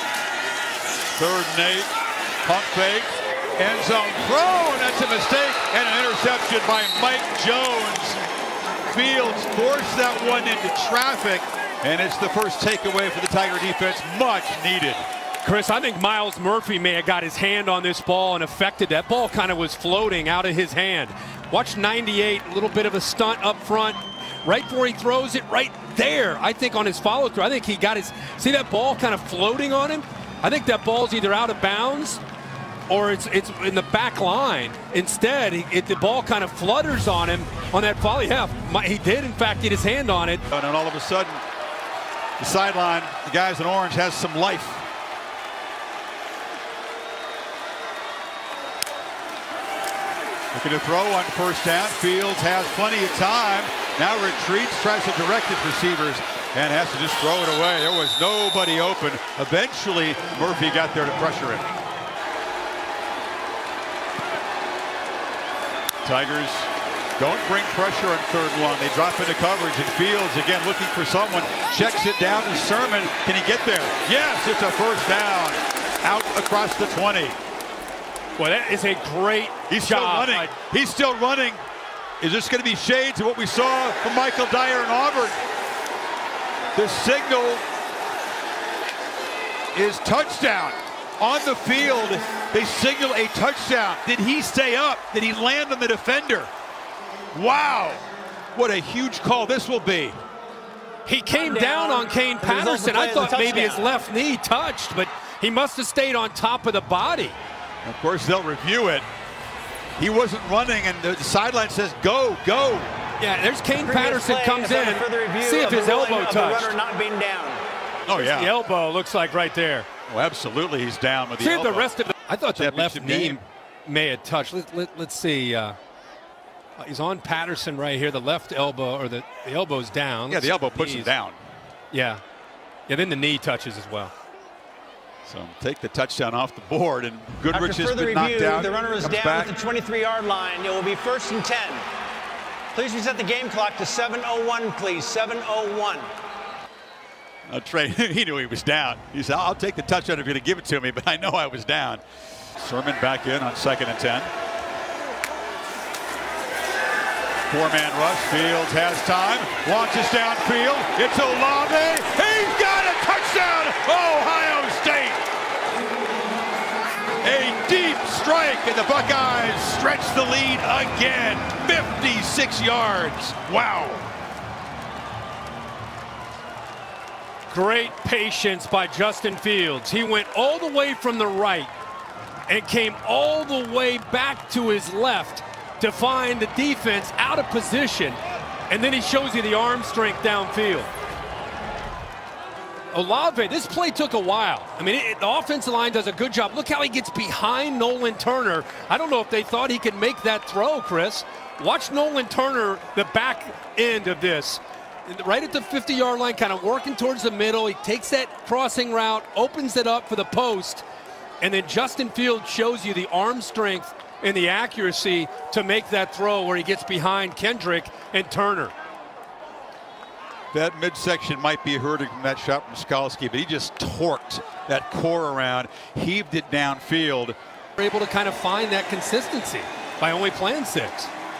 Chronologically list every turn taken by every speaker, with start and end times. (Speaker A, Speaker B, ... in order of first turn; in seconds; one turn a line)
Speaker A: 1.1-1.9
Speaker A: 2.4-8.2
Speaker A: 8.8-15.0
Speaker B: 15.4-32.2
Speaker B: 32.9-40.4
Speaker A: 40.5-41.4
Speaker A: 42.4-44.8
Speaker A: 50.5-61.7
Speaker A: 66.0-77.4
Speaker B: 78.4-80.5
Speaker A: 79.7-81.6
Speaker A: 82.2-85.4
Speaker A: 86.7-87.6
Speaker A: 89.7-96.5
Speaker A: 97.3-98.0
Speaker A: 98.5-100.2
Speaker B: 101.0-107.3
Speaker C: 101.3-103.9
Speaker A: 107.8-109.0
Speaker A: 110.0-112.9
Speaker B: 113.2-116.7
Speaker C: 113.7-117.6
Speaker A: 118.0-118.5
Speaker B: 118.1-119.9
Speaker A: 120.1-122.0
Speaker B: 121.4-125.8
Speaker A: 122.6-123.4
Speaker B: 126.8-131.1
Speaker A: 130.3-131.4
Speaker B: 131.9-132.2
Speaker B: 132.9-134.1
Speaker A: 135.2-139.5
Speaker C: 137.5-141.8
Speaker C: 142.7-146.1
Speaker A: 147.5-152.0
Speaker A: 152.6-154.3
Speaker A: 157.5-165.2
Speaker A: 167.2-174.1
Speaker B: 177.5-181.7
Speaker B: 182.5-190.9
Speaker B: 192.9-210.8
Speaker B: 211.4-218.7
Speaker A: 220.5-227.3
Speaker B: 227.8-231.1